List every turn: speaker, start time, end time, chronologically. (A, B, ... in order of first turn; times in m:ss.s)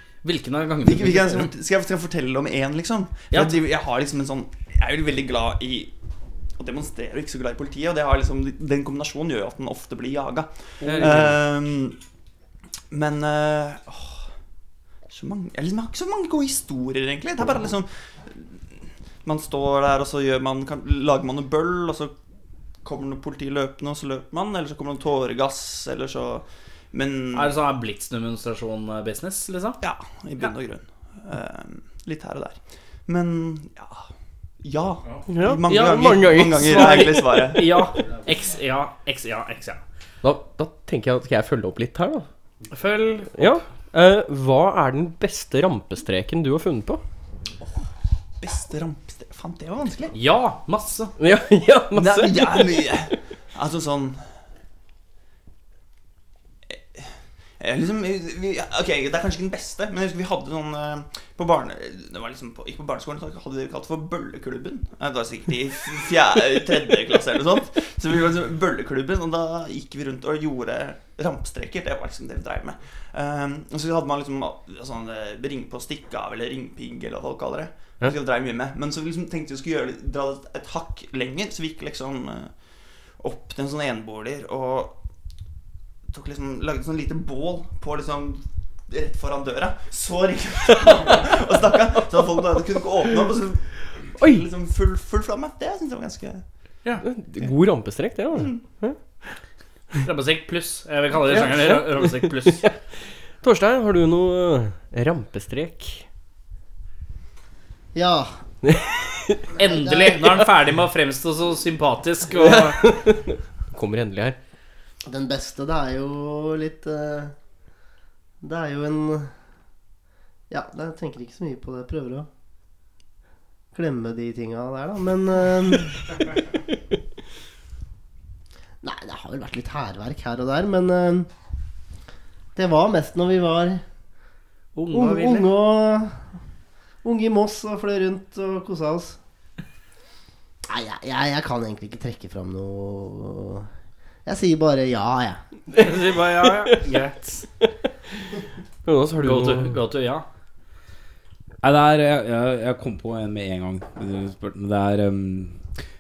0:00.2-0:01.5 A
0:00.8-0:05.9 B
0:06.6-0:12.0 B
0:10.9-0:11.4 C
0:12.9-0:14.2 B
0:15.1-0:18.6 B
0:19.2-0:22.1 B
0:22.8-0:27.6 B
0:27.3-0:29.8 A
0:29.8-0:34.0 B
0:34.6-0:37.9 B
0:35.1-0:39.8 A
0:35.3-0:37.2 C
0:40.2-0:42.2 C
0:42.7-0:43.6 A
0:43.3-0:47.0 C
0:48.4-0:50.2 B
0:50.1-0:51.1 A
0:51.2-0:53.0 C
0:52.0-0:54.2 B
0:57.6-1:22.6 B
1:23.2-1:25.0 B
1:26.1-1:36.4 B
1:34.2-1:34.5 C
1:37.0-1:39.0 C
1:38.3-1:38.6 B
1:40.0-1:42.7 A
1:41.3-1:42.7 C
1:43.4-1:46.0 C
1:47.9-1:48.3 D
1:48.6-1:49.4 C
1:49.6-1:50.3 D
1:49.6-1:52.8 A
1:52.4-1:54.4 C
1:55.1-1:57.3 D
1:58.4-1:59.3 D
2:00.5-2:02.3 D
2:03.7-2:06.1 D
2:08.8-2:11.3 D
2:12.6-2:13.8 D
2:14.8-2:15.5 A
2:14.9-2:16.2 D
2:17.0-2:19.2 D
2:20.7-2:23.7 D
2:24.3-2:25.4 D
2:25.8-2:27.5 A
2:28.8-2:29.8 C
2:29.2-2:30.2 A
2:31.6-2:35.6 E